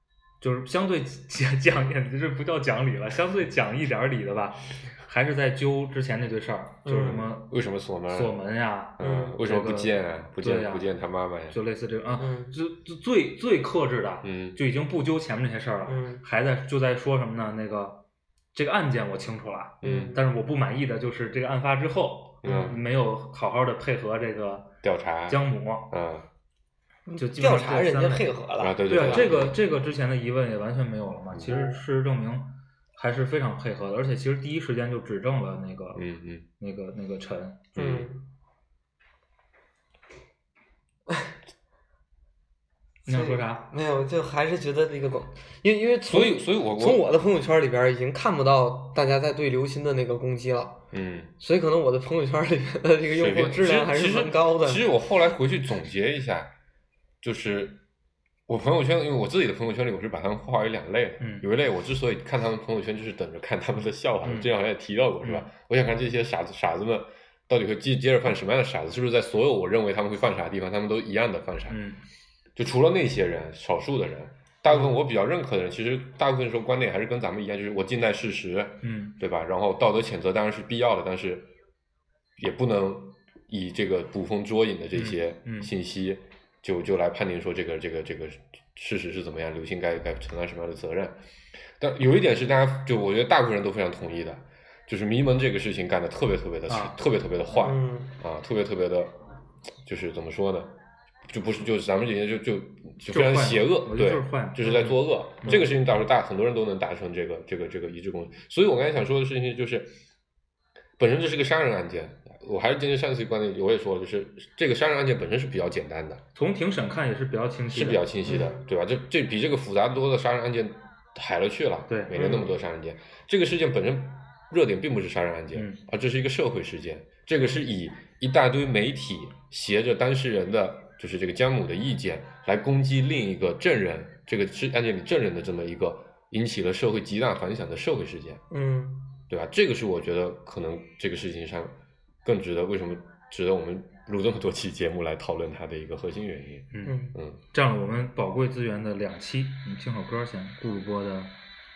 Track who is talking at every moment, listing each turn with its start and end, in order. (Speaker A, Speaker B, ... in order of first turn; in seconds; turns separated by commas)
Speaker A: 0.4-7.5, Speaker B: 6.8-7.3, Speaker C: 7.0-8.3, Speaker A: 8.1-10.9, Speaker C: 9.0-11.6, Speaker B: 9.0-9.4, Speaker A: 11.5-18.0, Speaker B: 12.2-12.6, Speaker C: 14.2-14.6, Speaker B: 15.9-16.2, Speaker A: 18.5-24.8, Speaker C: 19.8-20.2, Speaker B: 19.8-20.3, Speaker C: 22.4-22.8, Speaker C: 24.8-26.3, Speaker A: 25.3-25.9, Speaker B: 27.1-29.4, Speaker A: 27.2-28.3, Speaker C: 28.6-29.6, Speaker A: 28.9-36.0, Speaker C: 31.3-31.6, Speaker B: 31.5-31.8, Speaker C: 36.0-36.5, Speaker A: 36.6-37.8, Speaker C: 37.8-38.1, Speaker B: 37.8-38.2, Speaker A: 43.0-43.7, Speaker B: 43.0-50.8, Speaker C: 46.1-47.0, Speaker C: 50.9-51.4, Speaker B: 51.4-54.8, Speaker C: 53.1-56.5, Speaker C: 57.2-57.8, Speaker C: 58.5-71.8, Speaker A: 61.2-61.5, Speaker A: 64.2-64.5, Speaker A: 71.7-72.0, Speaker C: 72.6-81.5, Speaker A: 78.8-79.2, Speaker C: 82.4-91.2, Speaker A: 84.9-85.7, Speaker C: 91.8-99.2, Speaker A: 96.7-97.0, Speaker B: 97.6-98.1, Speaker C: 99.8-100.7, Speaker C: 101.3-110.0, Speaker A: 103.1-105.6, Speaker C: 111.0-116.2, Speaker A: 116.3-118.1, Speaker C: 117.7-138.4, Speaker B: 118.3-118.6, Speaker A: 121.9-122.2, Speaker B: 122.1-122.5, Speaker A: 125.5-125.8, Speaker B: 138.5-139.2, Speaker C: 139.3-147.4, Speaker A: 146.7-147.0, Speaker B: 146.8-147.2, Speaker A: 147.5-151.3